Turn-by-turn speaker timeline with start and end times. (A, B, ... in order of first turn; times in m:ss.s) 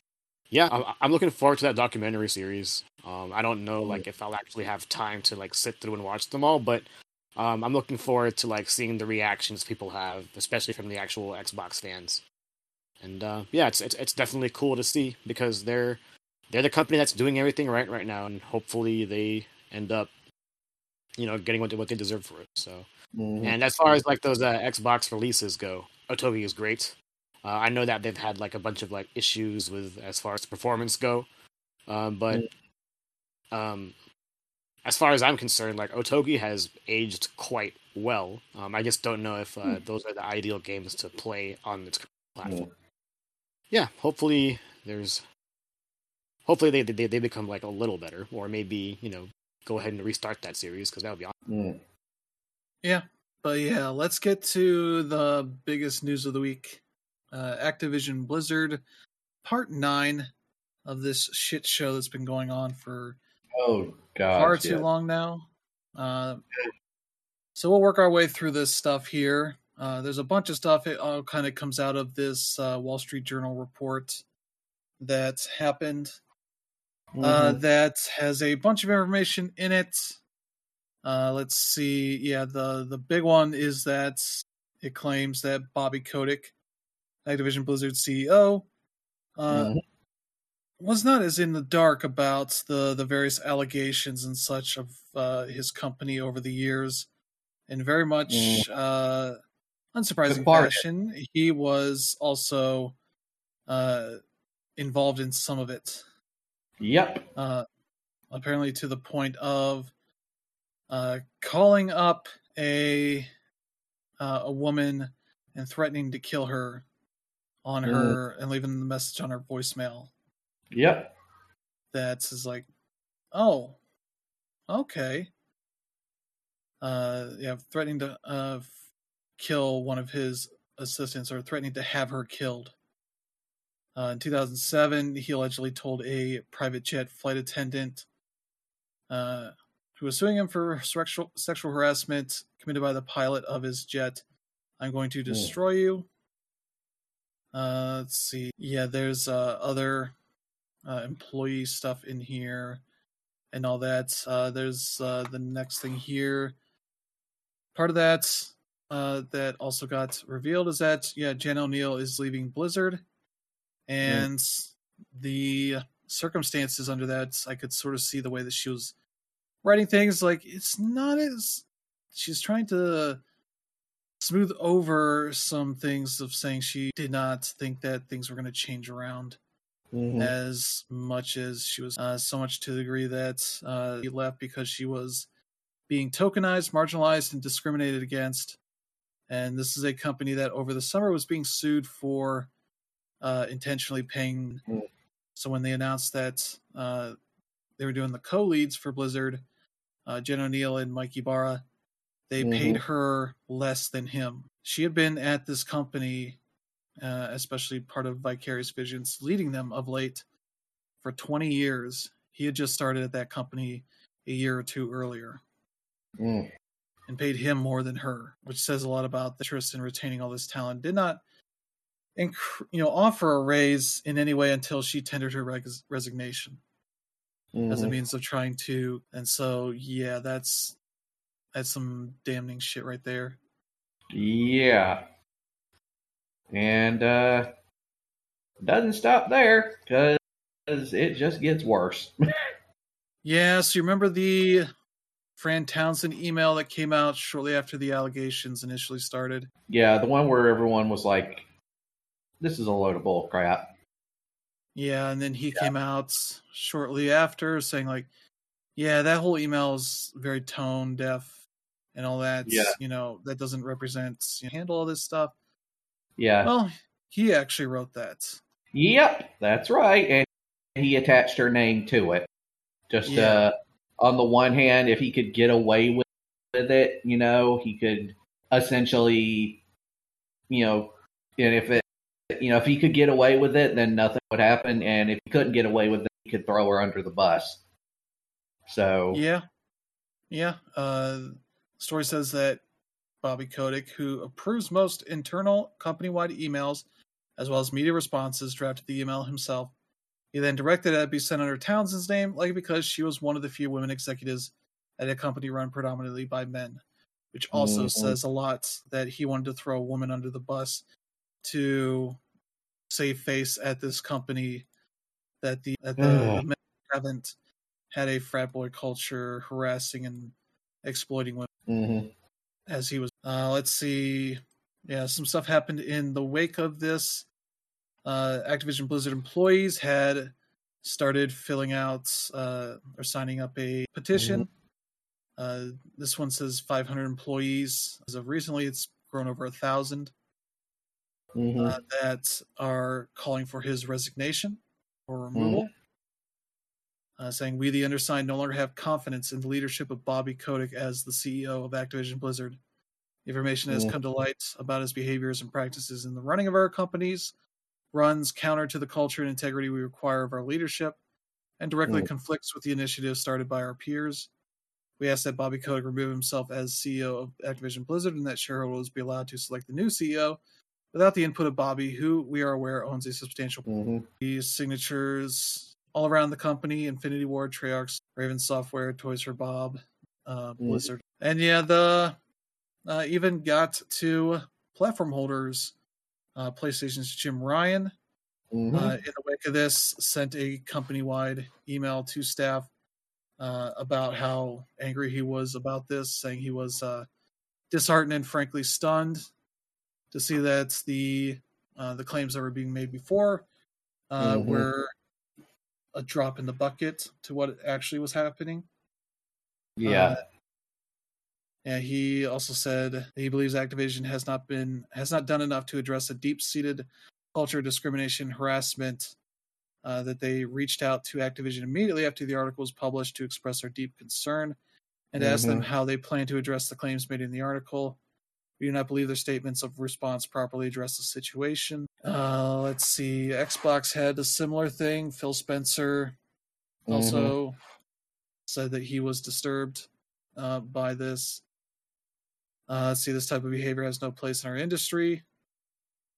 0:00.5-0:12.2 A
0:13.0-0:20.1 A
0:21.2-0:22.9 A
0:23.1-0:23.6 B
0:23.4-0:31.3 A
0:31.9-0:32.5 A
0:33.5-0:33.9 A
0:34.8-0:42.7 A
0:43.7-0:45.2 A
0:46.5-0:51.3 A
0:51.5-0:51.8 B
0:52.8-0:58.8 C
0:59.4-1:00.3 C
1:00.9-1:03.2 C
1:03.6-1:04.8 B
1:04.3-1:06.4 C
1:07.6-1:14.2 C
1:15.0-1:16.2 C
1:17.2-1:17.6 B
1:17.2-1:20.2 C
1:21.0-1:26.5 C
1:27.3-1:28.7 C
1:29.4-1:29.8 C
1:29.5-1:29.8 B
1:30.8-1:37.1 C
1:37.7-1:39.4 C
1:38.3-1:38.6 B
1:40.0-1:43.0 C
1:40.3-1:40.8 B
1:43.7-1:44.2 C
1:44.8-1:46.0 C
1:46.8-1:47.3 B
1:47.4-1:47.6 C
1:48.3-1:49.9 C
1:50.9-1:53.3 C
1:54.2-1:56.8 C
1:57.6-2:00.1 C
1:57.9-1:58.2 B
2:00.7-2:01.1 B
2:01.9-2:02.7 C
2:03.3-2:03.8 C
2:04.7-2:05.3 C
2:06.8-2:08.7 C
2:09.4-2:12.8 C
2:14.0-2:18.1 C
2:19.1-2:24.2 C
2:24.8-2:26.1 C
2:25.3-2:25.5 B
2:27.5-2:30.1 C
2:30.9-2:32.8 C
2:33.5-2:36.6 C
2:37.8-2:43.0 C
2:43.9-2:48.9 C
2:49.6-2:53.2 C
2:54.2-2:59.4 C
2:59.9-3:00.3 B
3:00.2-3:05.3 C
3:05.9-3:08.6 C
3:09.3-3:12.5 C
3:13.2-3:14.7 C
3:15.4-3:17.2 C
3:17.8-3:19.4 C
3:20.1-3:21.6 C
3:22.3-3:26.4 C
3:22.4-3:22.8 B
3:27.0-3:30.2 C
3:31.0-3:35.4 C
3:36.2-3:36.5 B
3:37.1-3:41.2 C
3:42.2-3:46.6 C
3:47.5-3:48.0 B
3:47.7-3:50.8 C
3:51.6-3:53.4 C
3:54.1-3:55.0 B
3:56.5-3:57.5 B
3:58.6-4:02.2 B
4:03.2-4:04.7 C
4:05.4-4:09.5 C
4:09.7-4:11.5 B
4:12.4-4:13.7 B
4:14.8-4:18.1 C
4:18.8-4:21.4 C
4:22.0-4:25.3 C
4:22.5-4:22.8 B
4:26.2-4:26.5 B
4:26.4-4:28.4 C
4:28.7-4:32.3 B
4:32.9-4:39.6 B
4:33.1-4:33.4 C
4:40.5-4:47.6 B
4:48.7-4:49.2 B
4:49.1-4:49.4 C
4:50.3-4:52.6 C
4:53.2-4:56.8 C
4:57.4-4:59.7 C
5:00.3-5:06.8 C
5:07.3-5:10.8 C
5:07.5-5:08.2 B
5:11.4-5:12.2 C
5:12.9-5:14.7 C
5:15.4-5:17.3 C
5:16.0-5:16.4 B
5:17.9-5:21.5 C
5:21.7-5:22.1 B
5:22.7-5:27.3 C
5:28.0-5:34.5 C
5:34.1-5:34.5 B
5:35.4-5:40.1 C
5:41.4-5:41.8 B
5:41.6-5:45.7 C
5:45.4-5:45.7 B
5:47.2-5:52.6 C
5:53.3-5:57.3 C
5:53.7-5:54.0 B
5:57.9-6:01.0 C
6:01.6-6:04.3 C
6:05.0-6:10.4 C
6:10.9-6:13.7 C
6:13.7-6:14.1 B
6:14.2-6:22.2 C
6:20.6-6:20.9 B
6:22.9-6:25.7 C
6:26.4-6:27.9 C
6:28.5-6:28.9 B
6:28.7-6:32.7 C
6:33.4-6:37.1 C
6:37.7-6:39.3 C
6:40.1-6:43.5 C
6:44.1-6:44.9 C
6:44.2-6:44.7 B
6:46.0-6:48.7 C
6:49.8-6:50.2 B
6:49.8-6:50.2 C
6:51.6-6:59.2 C
6:59.8-7:04.6 C
7:05.1-7:08.0 C
7:05.2-7:05.6 B
7:08.6-7:16.2 C
7:16.9-7:17.6 C
7:16.9-7:17.3 B
7:18.5-7:21.4 C
7:22.7-7:25.2 C